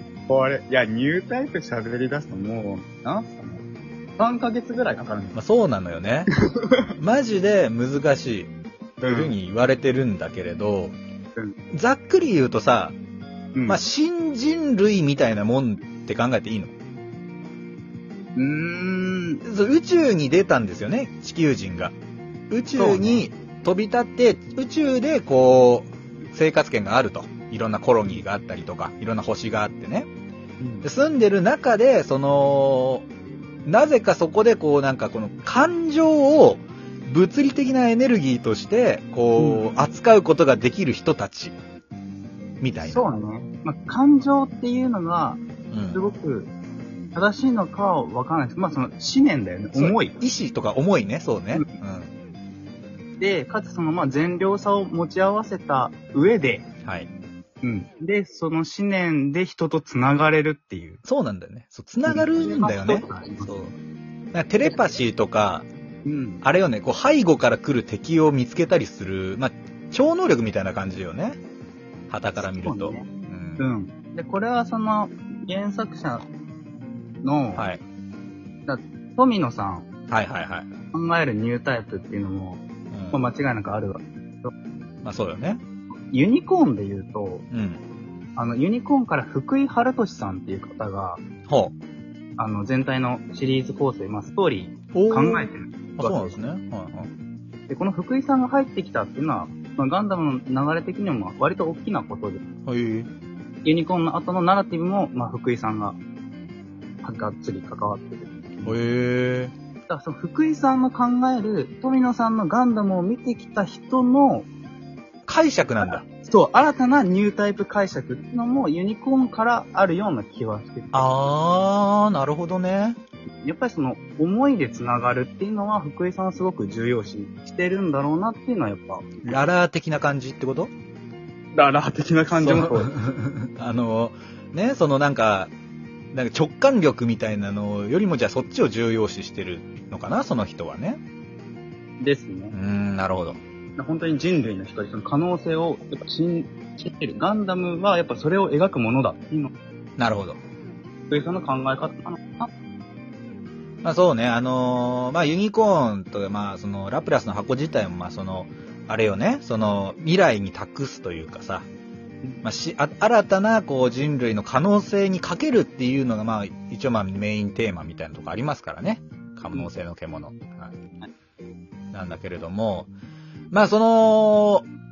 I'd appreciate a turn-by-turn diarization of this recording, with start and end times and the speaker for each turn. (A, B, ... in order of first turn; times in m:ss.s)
0:00.3-0:03.6 A
0:04.2-0:05.4 A
0:05.3-0:06.3 B
0:06.5-0:06.9 A
0:07.0-0:08.5 B
0:09.0-0:09.3 A
0:09.1-0:11.0 B
0:11.7-0:13.0 B
0:13.5-0:13.8 A
0:13.7-0:16.7 B
0:18.4-0:19.4 A
0:19.4-0:21.9 B
0:22.5-0:30.1 B
0:22.7-0:23.3 A
0:30.6-0:30.8 A
0:30.8-0:33.0 B
0:33.6-0:41.5 B
0:39.4-0:39.6 A
0:42.6-0:43.0 B
0:42.8-0:46.5 A
0:45.7-0:46.0 B
0:47.1-0:50.2 A
0:49.7-0:52.1 B
0:53.2-0:56.7 A
0:57.6-1:01.0 A
1:01.0-1:03.7 B
1:02.0-1:03.5 A
1:04.3-1:05.6 B
1:04.6-1:05.0 A
1:06.0-1:06.4 A
1:06.4-1:11.4 B
1:12.1-1:13.7 B
1:12.4-1:13.1 A
1:13.6-1:16.2 A
1:17.2-1:17.6 A
1:17.5-1:17.8 B
1:18.6-1:19.9 A
1:20.1-1:20.7 B
1:20.9-1:22.6 A
1:22.9-1:23.2 B
1:23.1-1:24.5 A
1:25.0-1:25.6 B
1:26.1-1:27.4 A
1:27.5-1:27.8 B
1:28.4-1:31.2 A
1:31.5-1:31.7 B
1:32.4-1:36.4 A
1:34.9-1:37.1 B
1:37.7-1:42.4 A
1:42.6-1:43.1 B
1:43.6-1:46.0 A
1:47.0-1:48.8 A
1:48.6-1:49.5 B
1:49.9-1:54.5 A
1:55.3-1:56.0 B
1:55.8-2:01.1 A
2:00.9-2:03.0 B
2:03.4-2:09.4 A
2:09.2-2:10.7 B
2:11.5-2:12.9 A
2:12.3-2:15.5 B
2:16.1-2:21.0 B
2:22.0-2:22.5 A
2:22.5-2:23.4 B
2:23.8-2:29.5 A
2:30.0-2:30.4 B
2:31.1-2:32.5 A
2:33.8-2:41.7 B
2:42.4-2:50.8 B
2:51.9-2:52.9 B
2:53.5-2:54.6 B